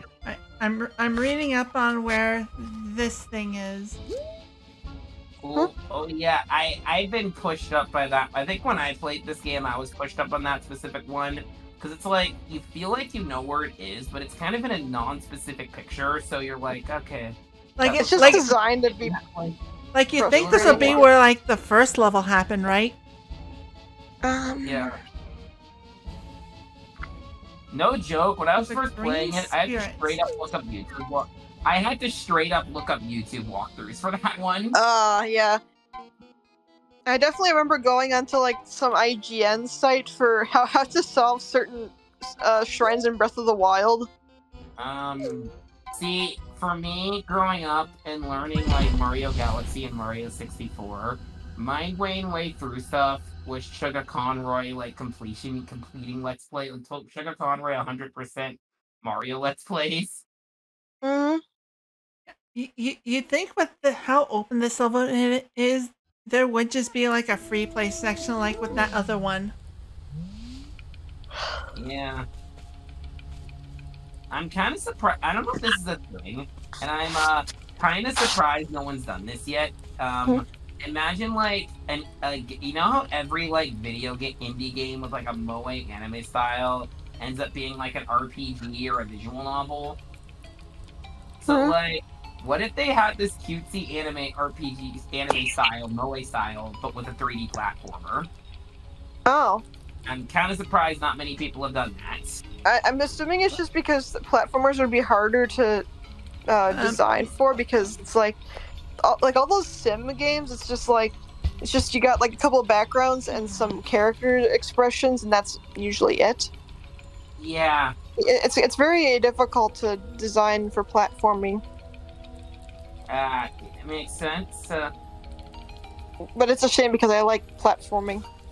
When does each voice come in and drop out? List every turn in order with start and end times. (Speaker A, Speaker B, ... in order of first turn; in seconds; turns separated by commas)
Speaker A: 0.2-4.0, Speaker B: 5.4-19.6, Speaker A: 17.8-18.6, Speaker C: 17.9-19.2, Speaker A: 19.9-23.0, Speaker C: 20.2-21.0, Speaker B: 20.3-21.0, Speaker C: 24.2-24.9, Speaker B: 24.6-25.0, Speaker B: 27.7-34.8, Speaker A: 28.6-30.2, Speaker C: 34.7-35.6, Speaker C: 37.0-44.1, Speaker B: 44.8-60.2, Speaker C: 61.0-61.4, Speaker A: 62.3-69.5, Speaker B: 71.7-72.2, Speaker B: 74.3-90.0, Speaker B: 91.4-98.3, Speaker C: 91.5-91.7, Speaker C: 99.3-99.6, Speaker B: 100.0-102.4, Speaker C: 102.7-105.8, Speaker C: 106.5-108.4, Speaker A: 106.7-107.1, Speaker C: 109.0-116.5, Speaker A: 113.3-113.7, Speaker B: 117.4-117.9, Speaker C: 118.2-121.6, Speaker B: 123.1-124.9, Speaker C: 126.3-128.2